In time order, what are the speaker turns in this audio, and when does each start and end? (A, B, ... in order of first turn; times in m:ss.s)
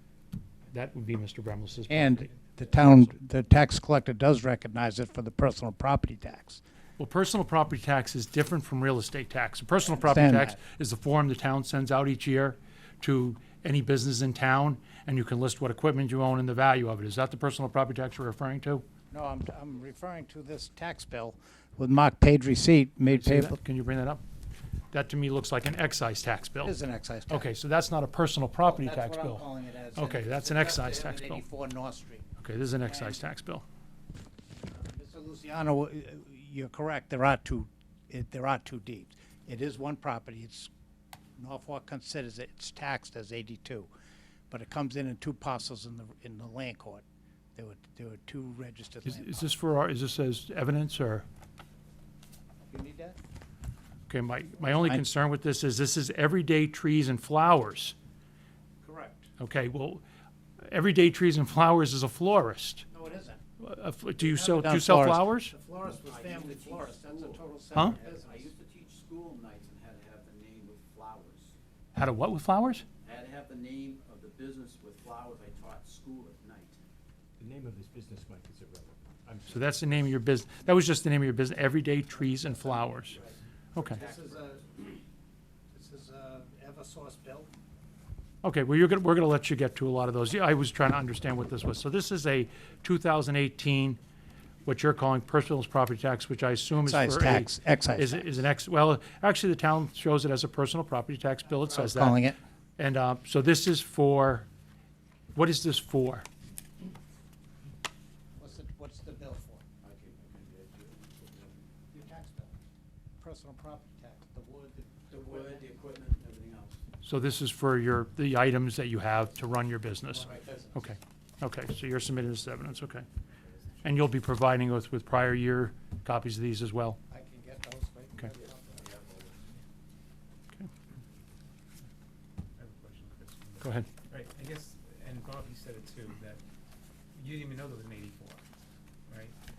0:00.7-0:03.1 A
0:01.9-0:06.6 B
0:07.0-0:18.9 A
0:09.8-0:10.6 B
0:19.1-0:23.6 B
0:23.1-0:24.2 A
0:24.9-0:26.8 A
0:26.6-0:27.5 B
0:27.3-0:31.4 A
0:28.6-0:32.2 B
0:32.4-0:33.6 A
0:32.8-0:33.2 B
0:34.7-0:40.7 B
0:41.4-0:43.9 B
0:44.5-0:47.0 B
0:47.6-0:49.5 B
0:49.0-0:51.2 A
0:52.7-0:53.2 B
0:54.1-0:57.9 A
0:54.6-0:55.0 B
0:58.8-0:59.3 B
0:59.4-1:00.0 A
1:00.6-1:02.8 A
1:02.9-1:03.4 B
1:03.6-1:05.5 A
1:04.2-1:08.5 B
1:05.8-1:07.4 C
1:08.0-1:11.5 C
1:11.9-1:12.8 A
1:13.0-1:16.8 C
1:17.4-1:20.1 D
1:19.5-1:23.2 A
1:23.0-1:24.6 C
1:23.7-1:24.0 A
1:23.9-1:24.8 B
1:25.7-1:27.5 B
1:28.4-1:34.0 A
1:34.6-1:44.5 A
1:36.8-1:38.4 B
1:41.6-1:42.4 B
1:45.3-1:46.2 A
1:48.4-1:49.6 B
1:49.8-1:51.6 C
1:51.9-1:52.6 B
1:53.2-1:55.7 B
1:55.1-1:56.8 C
1:57.0-2:03.0 A
2:00.1-2:00.8 B
2:00.2-2:00.7 C
2:03.8-2:07.0 A
2:07.1-2:08.9 B
2:08.7-2:09.5 C
2:12.6-2:16.4 E
2:13.6-2:13.9 A
2:17.1-2:18.4 E
2:19.1-2:19.4 E